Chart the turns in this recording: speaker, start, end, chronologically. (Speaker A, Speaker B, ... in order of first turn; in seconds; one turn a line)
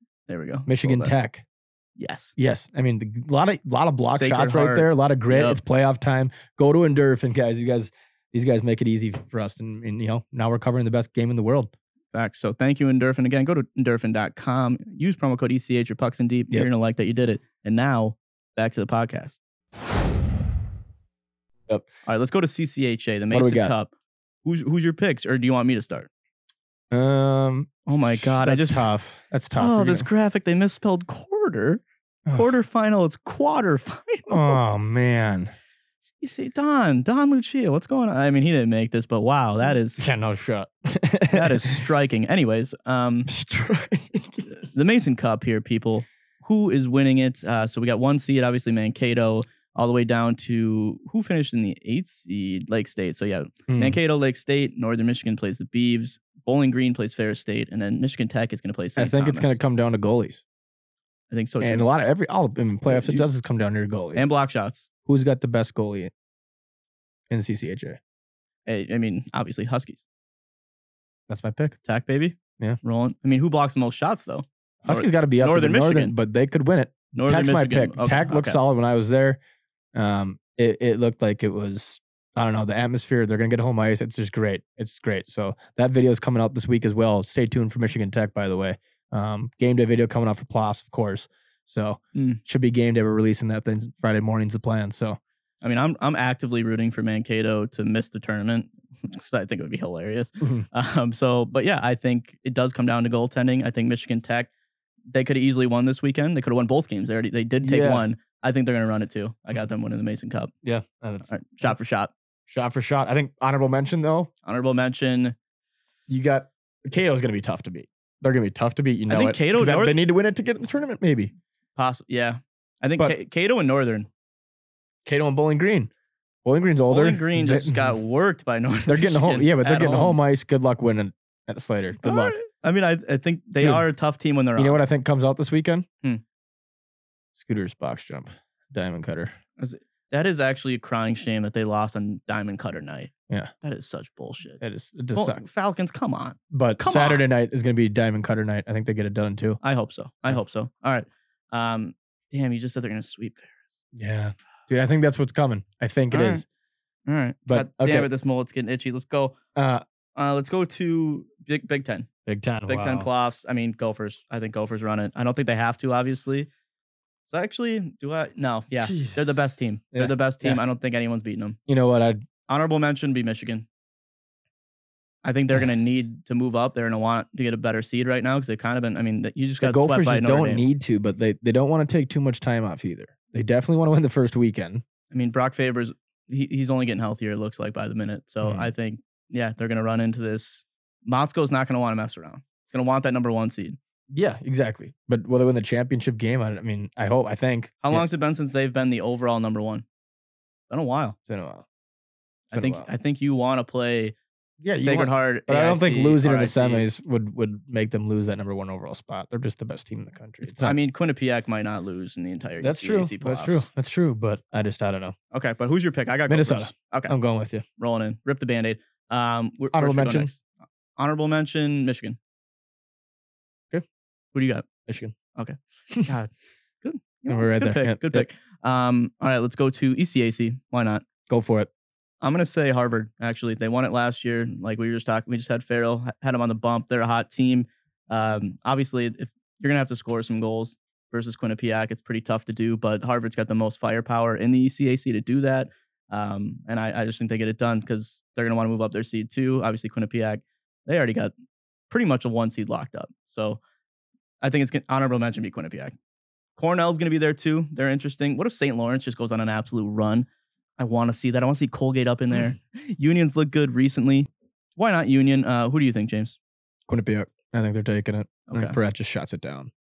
Speaker A: 0.3-1.1
Speaker B: 0.7-1.4
Speaker A: 2.0-2.3
Speaker B: 2.4-11.7
Speaker A: 4.1-5.6
Speaker A: 12.1-19.4
Speaker A: 22.1-23.9
Speaker B: 23.3-23.8
Speaker A: 24.4-26.1
Speaker B: 26.9-30.1
Speaker A: 27.9-28.9
Speaker A: 29.6-34.6
Speaker B: 34.3-35.5
Speaker A: 36.2-40.1
Speaker B: 39.7-41.8
Speaker A: 41.3-43.3
Speaker B: 43.3-44.5
Speaker A: 44.5-59.6
Speaker B: 53.7-54.0
Speaker B: 59.0-60.4
Speaker A: 61.3-61.9
Speaker B: 61.6-64.3
Speaker A: 62.9-63.3
Speaker A: 64.2-64.9
Speaker B: 65.1-66.1
Speaker B: 67.3-68.0
Speaker A: 68.7-70.0
Speaker B: 71.3-71.8
Speaker A: 71.9-76.2
Speaker B: 74.8-79.4
Speaker A: 77.1-78.6
Speaker B: 80.0-95.2
Speaker A: 92.2-92.4
Speaker A: 95.6-104.5
Speaker A: 105.1-110.5
Speaker B: 107.6-108.1
Speaker B: 110.6-111.8
Speaker A: 111.3-112.1
Speaker B: 112.5-114.3
Speaker A: 114.5-115.3
Speaker B: 116.1-121.3
Speaker A: 119.1-120.0
Speaker A: 121.8-124.1
Speaker B: 125.0-125.9
Speaker B: 126.5-127.9
Speaker A: 126.9-130.2
Speaker B: 128.9-132.4
Speaker A: 132.0-134.8
Speaker B: 133.6-133.9
Speaker B: 134.6-135.9
Speaker B: 137.3-139.3
Speaker A: 139.6-143.1
Speaker A: 143.6-144.6
Speaker B: 144.6-145.4
Speaker A: 145.1-147.3
Speaker B: 146.5-149.6
Speaker A: 149.6-153.8
Speaker B: 153.9-156.4
Speaker A: 156.1-156.4
Speaker A: 157.1-159.4
Speaker B: 157.5-158.1
Speaker B: 159.6-159.8
Speaker A: 160.2-162.1
Speaker B: 162.3-163.1
Speaker A: 162.7-166.5
Speaker A: 167.3-171.6
Speaker B: 168.8-169.3
Speaker B: 169.9-170.6
Speaker B: 171.7-172.2
Speaker A: 172.5-173.7
Speaker A: 175.2-180.7
Speaker B: 179.6-184.8
Speaker A: 185.1-193.8
Speaker B: 188.4-188.7
Speaker B: 194.1-198.1
Speaker A: 197.8-199.8
Speaker A: 200.7-201.2
Speaker B: 201.3-201.7
Speaker A: 202.5-204.2
Speaker B: 202.5-202.9
Speaker B: 204.6-210.8
Speaker A: 204.8-206.9
Speaker A: 210.4-213.7
Speaker B: 212.6-215.2
Speaker A: 215.3-217.2
Speaker B: 216.3-217.7
Speaker A: 217.8-220.4
Speaker B: 219.7-220.3
Speaker A: 221.0-222.2
Speaker A: 224.3-224.7
Speaker B: 224.9-225.1
Speaker A: 225.4-226.3
Speaker A: 226.8-231.1
Speaker B: 227.3-228.3
Speaker B: 231.3-231.7
Speaker A: 232.2-251.3
Speaker A: 251.9-253.6
Speaker A: 254.4-255.9
Speaker A: 256.6-260.3
Speaker A: 260.8-266.4
Speaker B: 266.9-269.7
Speaker A: 268.5-268.8